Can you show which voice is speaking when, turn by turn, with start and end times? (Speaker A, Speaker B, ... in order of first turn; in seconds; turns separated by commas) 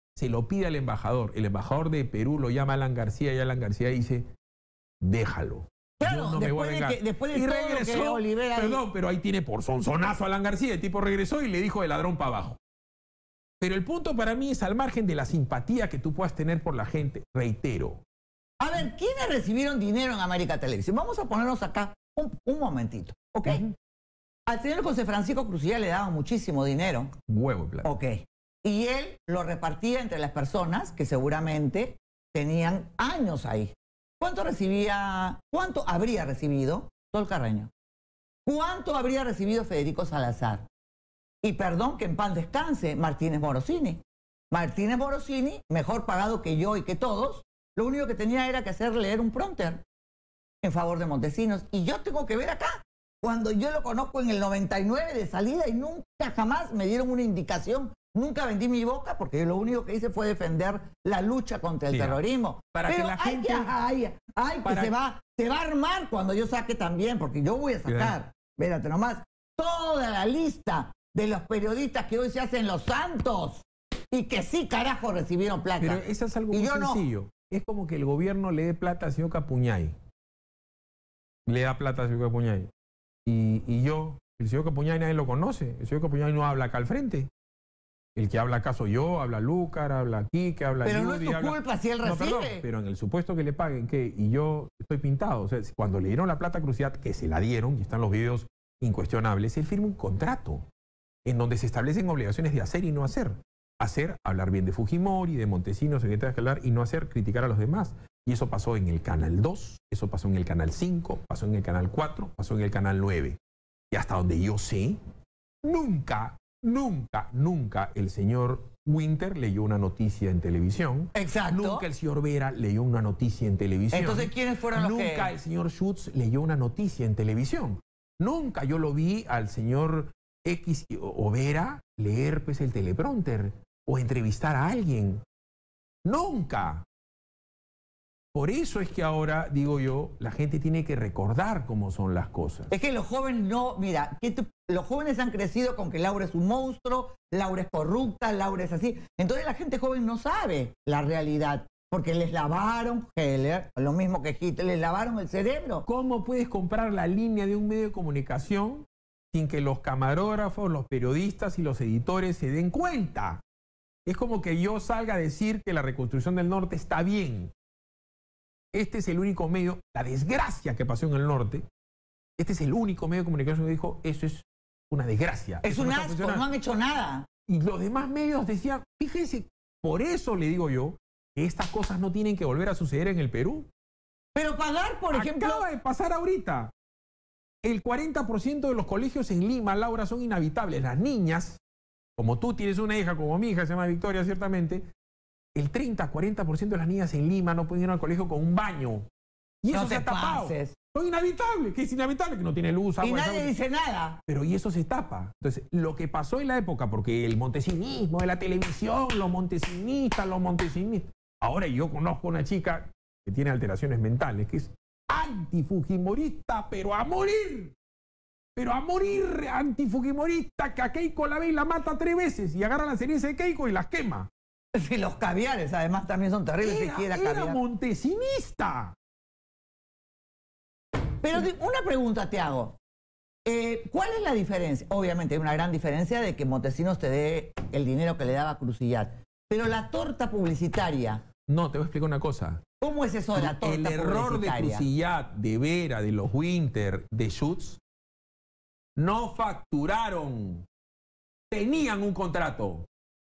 Speaker A: 0.1-4.3, Speaker A: 5.0-12.6, Speaker B: 6.0-8.8, Speaker A: 13.6-18.0, Speaker B: 18.6-23.7, Speaker A: 23.4-23.7, Speaker B: 24.5-27.1, Speaker A: 27.3-27.9, Speaker B: 27.8-37.7, Speaker B: 38.5-40.6, Speaker B: 41.4-49.8, Speaker B: 50.6-77.0, Speaker A: 61.9-63.7, Speaker A: 64.6-64.9, Speaker A: 67.8-68.1, Speaker A: 75.8-80.0, Speaker A: 81.5-82.7, Speaker A: 83.2-87.3, Speaker A: 88.2-100.6, Speaker B: 90.8-92.6, Speaker A: 101.2-113.4, Speaker A: 113.9-115.0, Speaker A: 115.6-135.2, Speaker B: 121.1-121.8, Speaker B: 123.9-125.3, Speaker A: 136.0-136.8, Speaker A: 138.3-142.7, Speaker B: 142.7-155.8, Speaker A: 155.8-163.4, Speaker A: 164.1-167.5, Speaker A: 168.7-171.6, Speaker A: 172.4-176.4, Speaker B: 175.6-177.3, Speaker A: 177.5-183.7, Speaker B: 184.3-185.7, Speaker A: 185.1-186.7, Speaker A: 187.6-191.6, Speaker A: 192.2-194.8, Speaker A: 195.5-199.1, Speaker A: 199.6-203.5, Speaker B: 199.7-200.7, Speaker B: 203.0-204.2, Speaker A: 204.3-217.7, Speaker A: 218.5-224.3, Speaker B: 224.7-227.6, Speaker A: 226.6-228.9, Speaker B: 231.2-232.8, Speaker B: 233.4-241.2, Speaker A: 241.5-242.6, Speaker B: 242.8-244.9, Speaker A: 243.3-247.8, Speaker A: 248.9-250.6, Speaker A: 251.5-252.8